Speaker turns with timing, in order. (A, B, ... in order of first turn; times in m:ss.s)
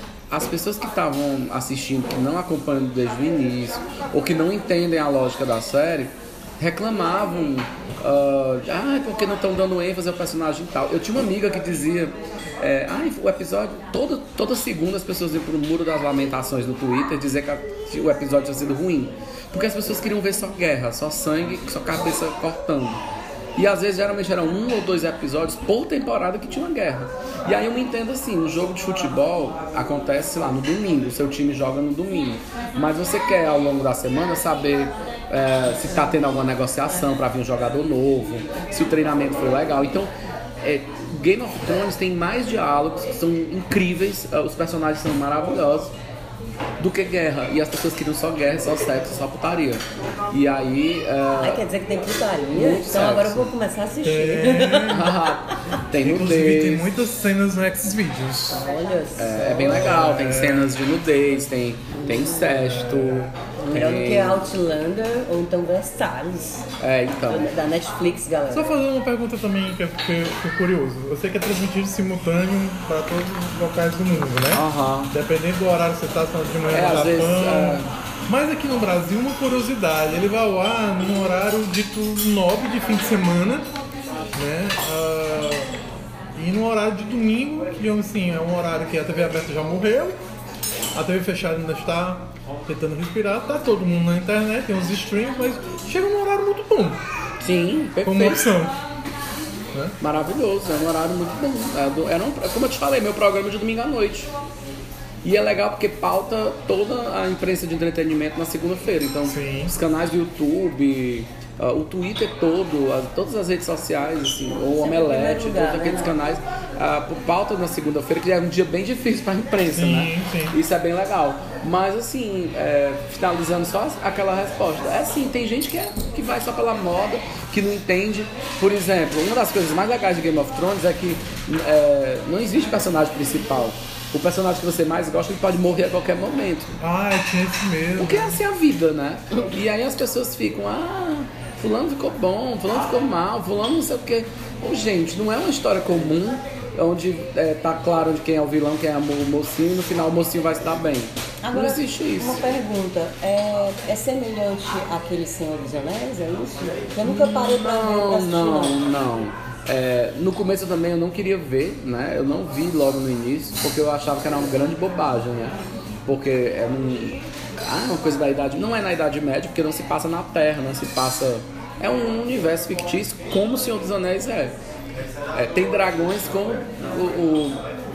0:00.3-0:23.0 A
0:23.6-0:40.1 A
0:40.6-0:45.9 A
0:46.8-0:51.6 A
0:51.4-0:55.5 B
0:52.5-0:53.5 A
0:54.0-0:55.1 C
0:54.9-0:56.9 A
0:56.0-0:58.6 C
0:58.5-0:59.9 B
0:59.2-1:04.5 A
0:59.6-1:00.8 C
1:02.0-1:02.5 B
1:02.5-1:03.4 C
1:03.6-1:06.7 B
1:06.8-1:07.5 A
1:07.3-1:08.7 B
1:08.5-1:23.7 C
1:14.5-1:15.1 A
1:16.7-1:17.9 A
1:24.3-1:25.8 C
1:26.4-1:30.2 C
1:31.0-1:37.0 C
1:37.4-1:38.5 A
1:38.0-1:38.8 C
1:40.0-1:44.3 A
1:45.2-2:16.7 A
1:49.2-1:49.7 C
1:54.8-1:56.2 B
1:59.7-2:00.6 C
2:16.8-2:18.4 C
2:18.0-2:32.4 A
2:31.4-2:38.8 B
2:37.0-2:45.6 A
2:46.1-2:54.6 A
2:55.3-2:57.6 A